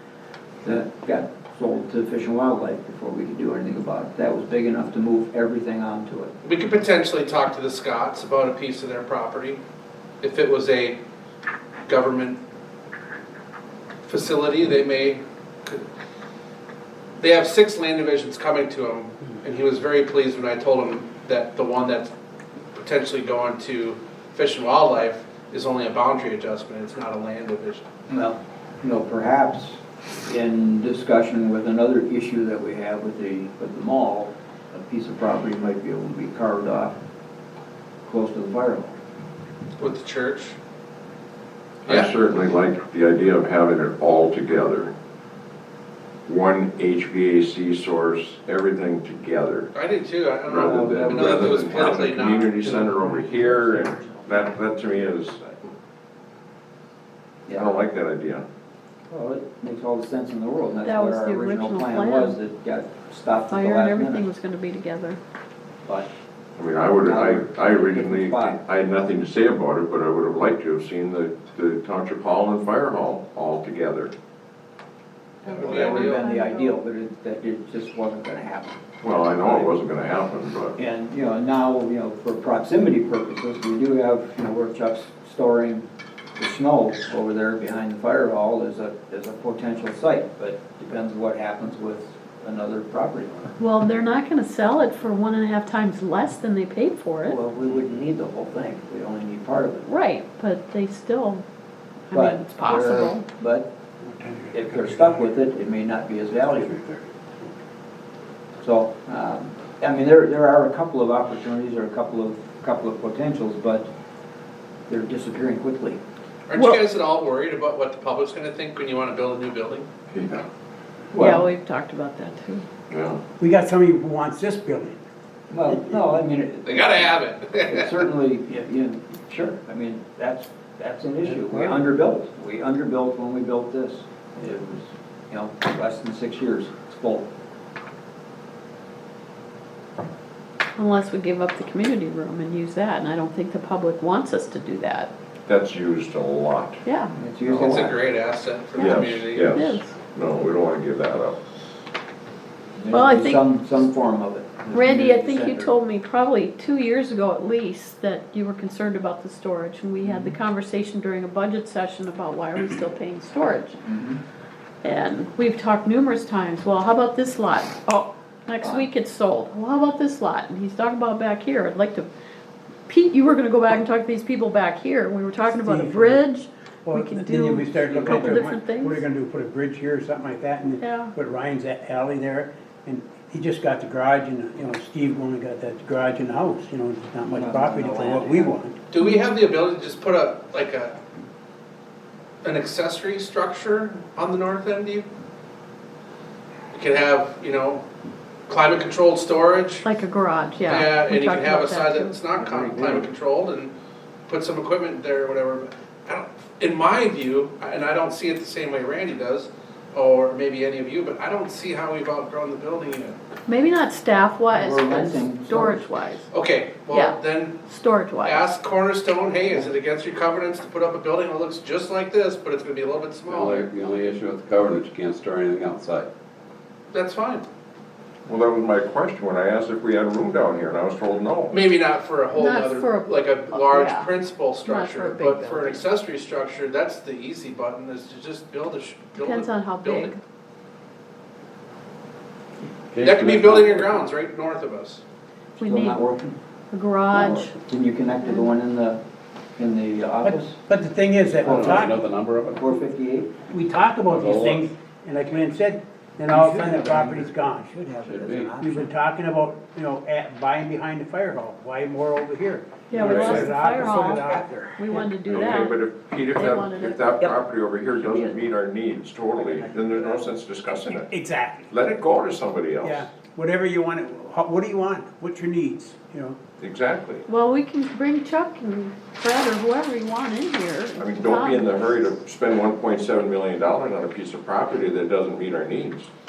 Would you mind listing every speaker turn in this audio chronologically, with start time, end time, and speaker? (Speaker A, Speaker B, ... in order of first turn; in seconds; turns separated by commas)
Speaker A: 0.6-6.3, Speaker B: 6.4-9.6, Speaker B: 10.2-11.0, Speaker B: 11.9-12.4, Speaker B: 14.1-15.8, Speaker B: 17.2-22.1, Speaker B: 22.8-27.8, Speaker A: 28.1-37.0, Speaker A: 38.0-39.0, Speaker B: 39.8-40.6, Speaker C: 41.9-44.9, Speaker B: 41.9-42.1, Speaker C: 46.3-49.7, Speaker B: 49.7-52.6, Speaker C: 50.5-55.4, Speaker A: 50.5-55.6, Speaker A: 57.5-57.7, Speaker C: 57.5-58.5, Speaker A: 59.1-64.3, Speaker D: 60.8-62.4, Speaker D: 63.5-65.2, Speaker A: 65.8-66.1, Speaker C: 66.6-74.1, Speaker A: 67.0-68.6, Speaker A: 75.4-79.7, Speaker B: 75.5-76.2, Speaker D: 75.6-76.8, Speaker C: 79.0-80.8, Speaker A: 80.8-85.8, Speaker A: 86.4-93.5, Speaker D: 93.6-97.4, Speaker A: 97.2-99.9, Speaker D: 99.8-101.5, Speaker D: 102.1-103.3, Speaker A: 102.1-103.7, Speaker E: 104.0-105.3, Speaker A: 104.5-106.8, Speaker E: 106.7-107.0, Speaker A: 108.6-113.9, Speaker A: 114.9-116.0, Speaker B: 116.5-119.9, Speaker C: 120.1-120.5, Speaker A: 121.1-121.5, Speaker D: 121.3-122.7, Speaker C: 122.9-123.2, Speaker E: 123.4-125.0, Speaker A: 125.5-137.3, Speaker B: 126.7-127.9, Speaker D: 140.8-145.1, Speaker C: 145.5-146.8, Speaker D: 146.8-147.1, Speaker A: 147.1-148.0, Speaker B: 147.5-149.6, Speaker C: 147.5-147.8, Speaker C: 148.8-151.4, Speaker D: 149.5-150.0, Speaker A: 152.8-155.7, Speaker D: 152.9-153.5, Speaker D: 154.7-163.8, Speaker A: 160.0-160.4, Speaker A: 163.8-164.2, Speaker D: 164.8-172.1, Speaker A: 168.6-168.9, Speaker D: 172.9-179.0, Speaker E: 175.4-176.3, Speaker E: 176.9-188.8, Speaker A: 177.8-178.5, Speaker D: 180.8-181.1, Speaker A: 187.3-188.5, Speaker B: 188.9-190.9, Speaker B: 192.4-195.1, Speaker B: 196.7-197.8, Speaker B: 198.5-199.9, Speaker D: 199.8-202.2, Speaker B: 200.7-203.7, Speaker A: 202.3-203.1, Speaker B: 204.3-213.2, Speaker D: 213.5-216.3, Speaker A: 214.5-216.1, Speaker B: 216.3-217.6, Speaker D: 216.9-218.5, Speaker B: 218.2-223.7, Speaker F: 223.3-226.1, Speaker B: 226.9-227.5, Speaker C: 228.3-231.6, Speaker B: 231.5-240.1, Speaker D: 232.4-234.1, Speaker D: 234.7-235.8, Speaker D: 239.2-240.2, Speaker F: 242.9-244.1, Speaker B: 243.0-245.0, Speaker A: 245.6-246.4, Speaker D: 245.6-246.0, Speaker D: 246.7-247.5, Speaker A: 247.1-249.0, Speaker A: 249.6-250.6, Speaker E: 250.2-251.9, Speaker F: 251.4-252.7, Speaker A: 251.4-251.9, Speaker A: 252.5-253.3, Speaker E: 253.5-257.7, Speaker F: 254.1-254.7, Speaker A: 256.3-258.9, Speaker F: 256.4-257.2, Speaker F: 258.0-258.6, Speaker E: 258.6-265.2, Speaker D: 262.9-265.8, Speaker F: 263.0-263.4, Speaker A: 263.9-264.8, Speaker C: 265.3-271.1, Speaker D: 266.4-267.0, Speaker A: 267.9-268.5, Speaker A: 269.4-270.4, Speaker E: 271.1-271.7, Speaker C: 271.7-273.0, Speaker E: 272.8-276.4, Speaker C: 276.6-277.3, Speaker D: 277.3-282.0, Speaker C: 281.0-286.1